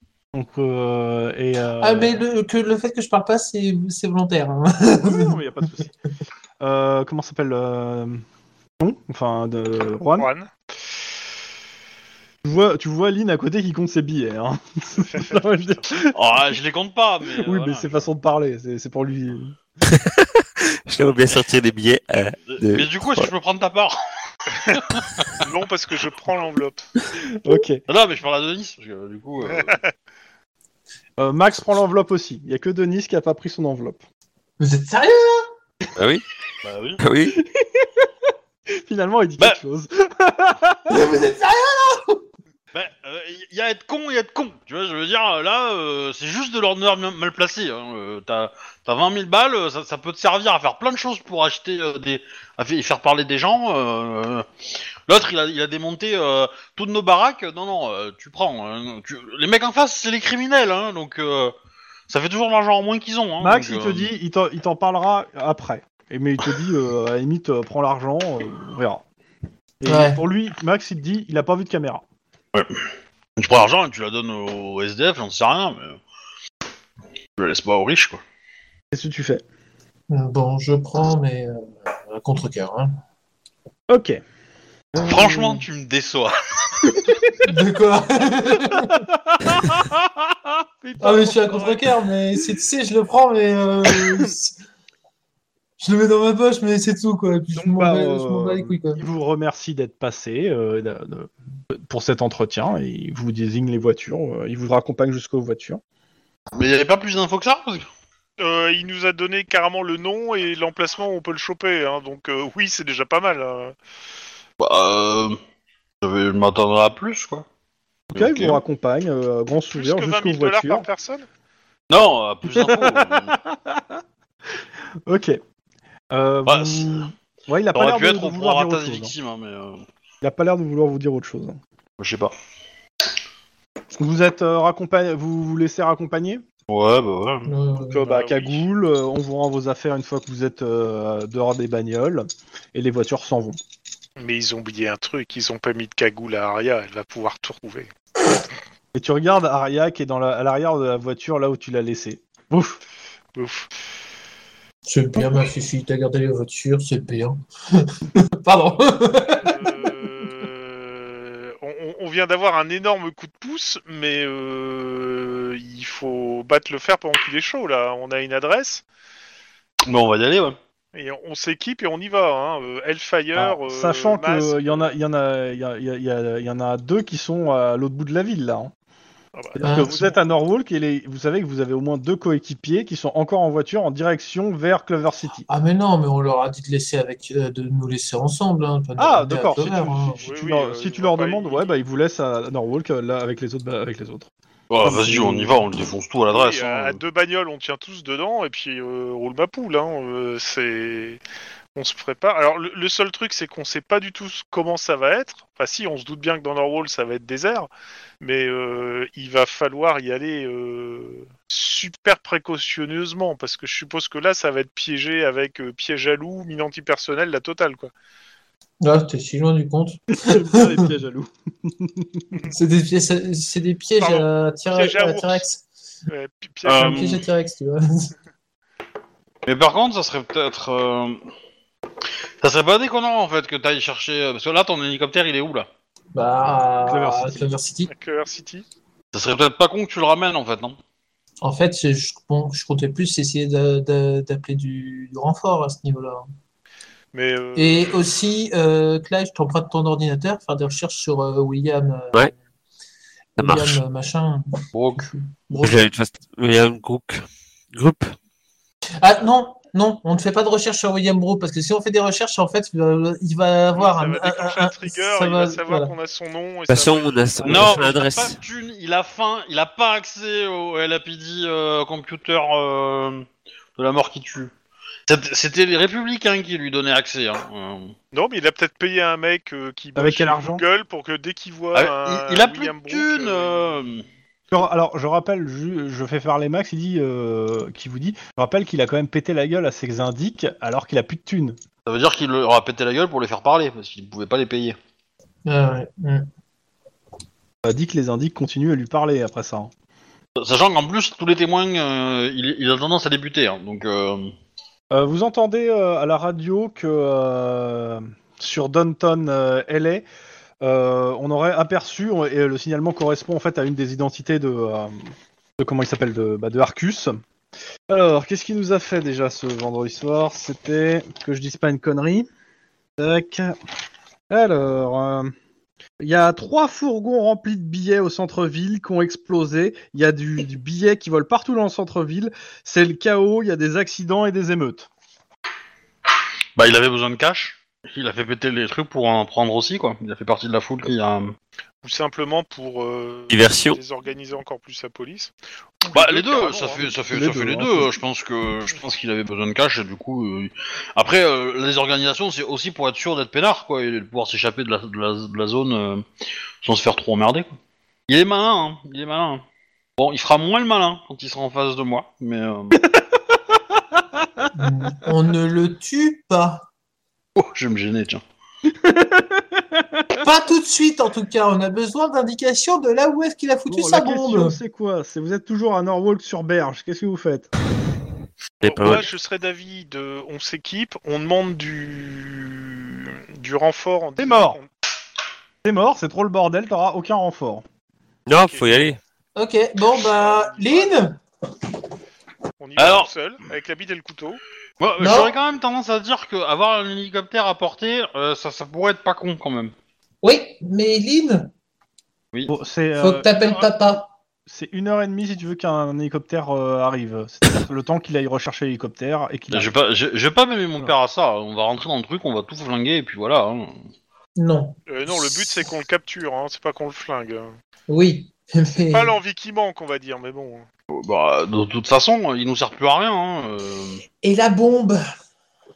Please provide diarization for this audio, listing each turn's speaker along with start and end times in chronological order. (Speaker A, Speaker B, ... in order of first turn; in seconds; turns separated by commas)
Speaker A: 0.3-2.2, Speaker B: 1.8-5.3, Speaker A: 5.0-5.9, Speaker A: 6.6-8.2, Speaker A: 8.8-10.3, Speaker C: 10.2-10.5, Speaker A: 12.4-16.4, Speaker C: 15.0-15.8, Speaker D: 16.1-18.0, Speaker A: 17.4-19.6, Speaker E: 19.9-23.3, Speaker D: 22.4-25.4, Speaker C: 25.4-26.8, Speaker A: 27.2-27.8, Speaker D: 27.9-29.8, Speaker C: 29.6-29.9, Speaker A: 31.2-34.0, Speaker B: 34.6-35.4, Speaker E: 36.0-36.2, Speaker D: 36.6-37.0, Speaker E: 37.0-37.4, Speaker A: 37.3-38.1, Speaker A: 38.7-40.9, Speaker B: 40.9-42.2, Speaker D: 42.7-54.5, Speaker D: 55.1-61.5, Speaker D: 62.1-64.1, Speaker A: 63.4-69.0, Speaker A: 69.8-72.0, Speaker B: 69.8-70.2, Speaker D: 72.5-72.8, Speaker D: 73.4-76.0, Speaker D: 77.4-78.2, Speaker A: 78.9-79.4, Speaker B: 80.1-83.0, Speaker A: 83.9-84.2, Speaker A: 84.9-85.6, Speaker D: 85.0-87.3, Speaker B: 87.4-89.0, Speaker A: 88.6-91.9, Speaker B: 91.0-94.6, Speaker A: 93.9-94.3, Speaker B: 95.8-99.0, Speaker A: 97.5-105.8, Speaker D: 106.5-107.9, Speaker C: 108.4-113.7, Speaker D: 114.6-115.4, Speaker D: 116.0-117.5, Speaker A: 118.1-120.9, Speaker D: 118.1-118.6, Speaker C: 119.7-121.3, Speaker D: 121.9-123.3, Speaker A: 122.5-124.0, Speaker A: 125.1-125.4, Speaker A: 126.1-129.1, Speaker D: 126.5-127.1, Speaker D: 127.7-129.8, Speaker A: 130.2-131.6, Speaker D: 132.0-132.3, Speaker A: 134.0-136.4, Speaker D: 136.7-137.5, Speaker B: 137.4-138.1, Speaker A: 137.8-143.6, Speaker C: 138.0-138.6, Speaker C: 144.2-147.9, Speaker A: 148.9-152.8, Speaker C: 153.3-153.7, Speaker B: 154.9-159.6, Speaker C: 159.3-168.8, Speaker D: 169.8-170.6, Speaker C: 170.9-174.9, Speaker A: 173.3-178.7, Speaker C: 179.3-180.2, Speaker A: 179.6-185.5, Speaker B: 179.6-180.0, Speaker B: 185.5-190.2, Speaker A: 189.0-194.3, Speaker C: 190.2-191.7, Speaker D: 194.7-197.0, Speaker A: 194.8-195.6, Speaker C: 196.3-201.2, Speaker C: 201.7-207.7, Speaker C: 208.2-217.9, Speaker B: 218.8-220.9, Speaker A: 220.1-222.3, Speaker B: 222.5-225.6, Speaker C: 224.0-225.4, Speaker C: 226.1-227.2, Speaker D: 226.6-227.2, Speaker B: 226.8-228.1, Speaker D: 229.4-231.2, Speaker D: 232.4-235.7, Speaker B: 236.1-237.9, Speaker A: 236.8-237.5, Speaker C: 237.9-238.7, Speaker D: 239.1-240.8, Speaker B: 241.4-246.2, Speaker C: 247.1-248.1, Speaker B: 247.5-252.3, Speaker E: 253.4-253.8, Speaker B: 253.4-255.8, Speaker D: 254.7-255.1, Speaker E: 255.6-258.1, Speaker B: 259.0-265.9, Speaker C: 263.8-267.9, Speaker E: 266.7-268.4, Speaker D: 267.4-274.5, Speaker D: 275.1-277.9, Speaker C: 278.1-283.9, Speaker A: 279.9-280.6, Speaker D: 281.7-284.1, Speaker A: 284.5-291.6, Speaker D: 291.8-294.8, Speaker B: 295.4-296.3, Speaker A: 297.6-299.7, Speaker D: 300.4-304.3, Speaker A: 304.9-310.0, Speaker A: 310.6-317.2, Speaker A: 317.9-322.3, Speaker A: 323.0-323.6, Speaker A: 324.3-325.3, Speaker A: 326.0-334.9, Speaker D: 336.6-341.4, Speaker C: 341.8-346.9, Speaker E: 343.3-343.8, Speaker D: 345.9-356.0, Speaker A: 347.1-347.9, Speaker D: 356.6-357.6, Speaker D: 358.1-359.4, Speaker D: 360.0-362.8, Speaker A: 362.8-364.5, Speaker B: 364.5-366.6, Speaker D: 367.4-368.2, Speaker A: 368.7-370.2, Speaker B: 370.2-374.6, Speaker A: 373.7-377.5, Speaker C: 378.6-384.7, Speaker E: 378.6-379.0, Speaker A: 384.2-384.6, Speaker A: 385.6-387.6, Speaker E: 388.3-389.0, Speaker C: 388.4-388.9, Speaker B: 389.4-391.2, Speaker C: 390.1-391.0, Speaker C: 392.6-394.4, Speaker D: 392.8-393.1, Speaker D: 394.8-399.7, Speaker B: 395.0-395.3, Speaker B: 400.2-401.5, Speaker A: 402.5-403.7, Speaker B: 403.0-404.1, Speaker A: 404.5-409.7, Speaker D: 409.5-413.8, Speaker B: 414.4-415.6, Speaker C: 414.9-417.5, Speaker B: 417.9-419.1, Speaker C: 418.9-420.6, Speaker D: 420.9-424.0, Speaker B: 424.2-425.0